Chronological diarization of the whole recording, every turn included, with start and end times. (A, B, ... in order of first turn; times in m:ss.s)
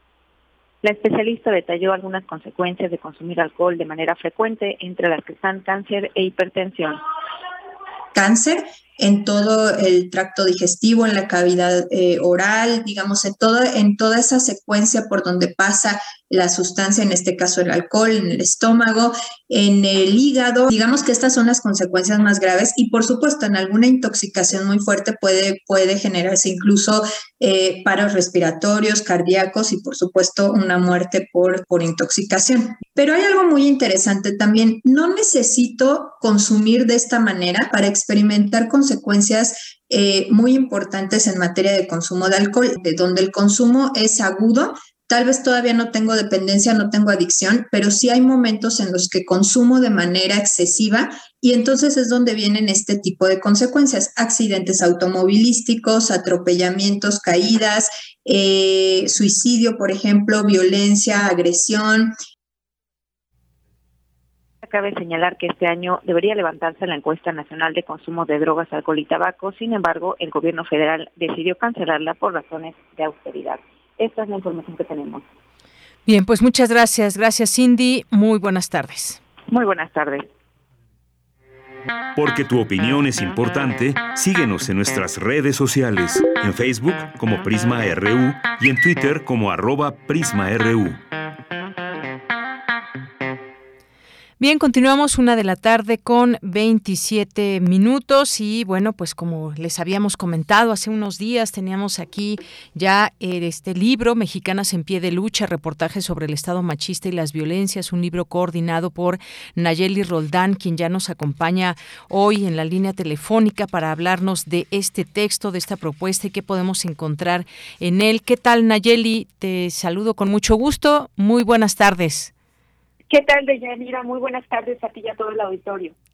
0:00.8-0:07.0 A
0:08.1-1:02.1 B
1:04.6-1:15.2 A
1:16.0-1:19.2 C
1:19.5-1:20.3 A
1:22.2-1:31.0 D
1:34.4-2:02.3 C
2:03.1-2:05.9 E